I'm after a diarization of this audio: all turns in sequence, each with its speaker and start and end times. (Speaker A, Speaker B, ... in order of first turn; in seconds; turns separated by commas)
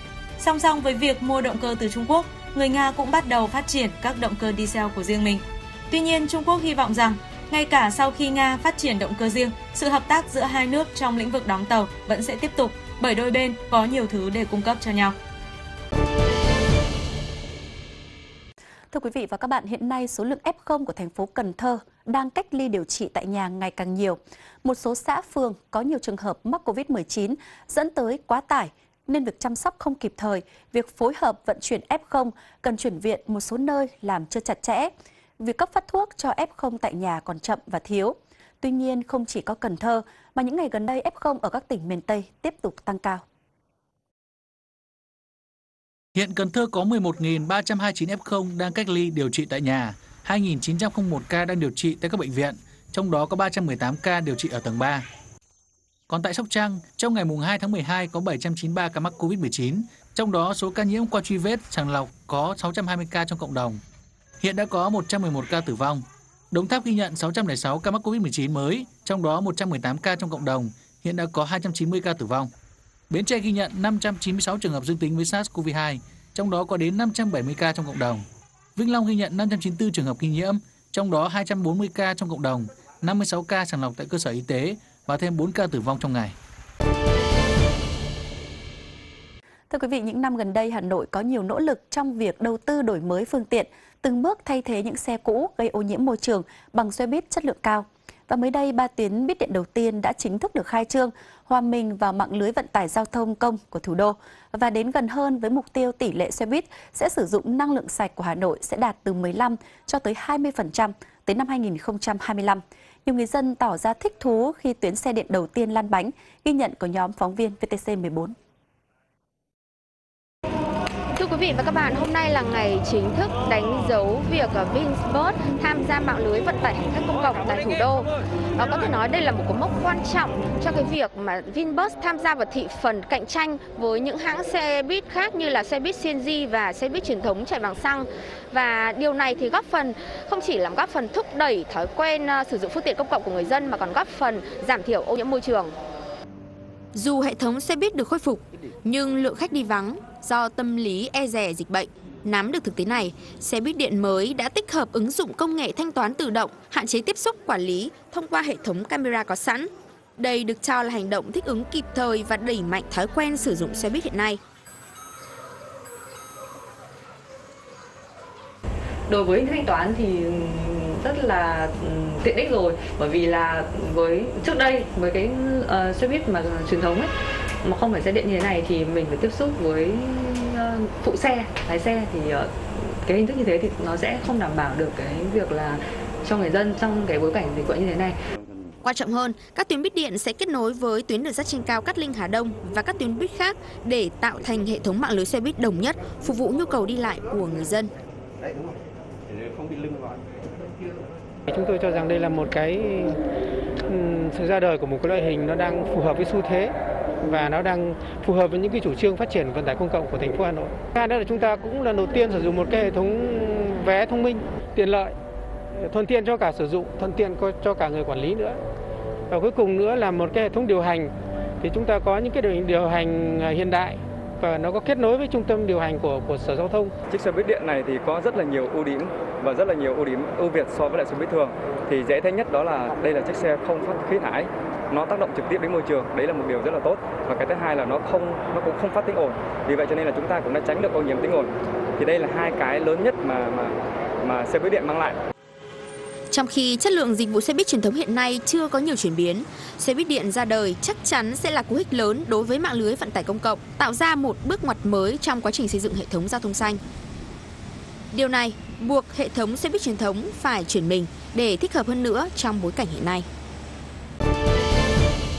Speaker A: 0.4-15.2, Speaker B: 18.9-43.2, Speaker C: 46.1-55.0, Speaker C: 56.1-63.8, Speaker C: 64.4-72.5, Speaker C: 73.1-78.2, Speaker C: 78.8-86.3, Speaker B: 89.7-118.3, Speaker D: 121.1-145.7, Speaker E: 146.9-164.4, Speaker F: 169.1-188.2, Speaker E: 188.8-197.9, Speaker G: 201.5-203.1, Speaker G: 203.9-206.7, Speaker G: 207.2-215.1, Speaker G: 215.8-218.6, Speaker G: 219.3-221.1, Speaker G: 221.6-226.9, Speaker H: 227.1-245.2, Speaker E: 246.3-256.8, Speaker E: 258.1-263.3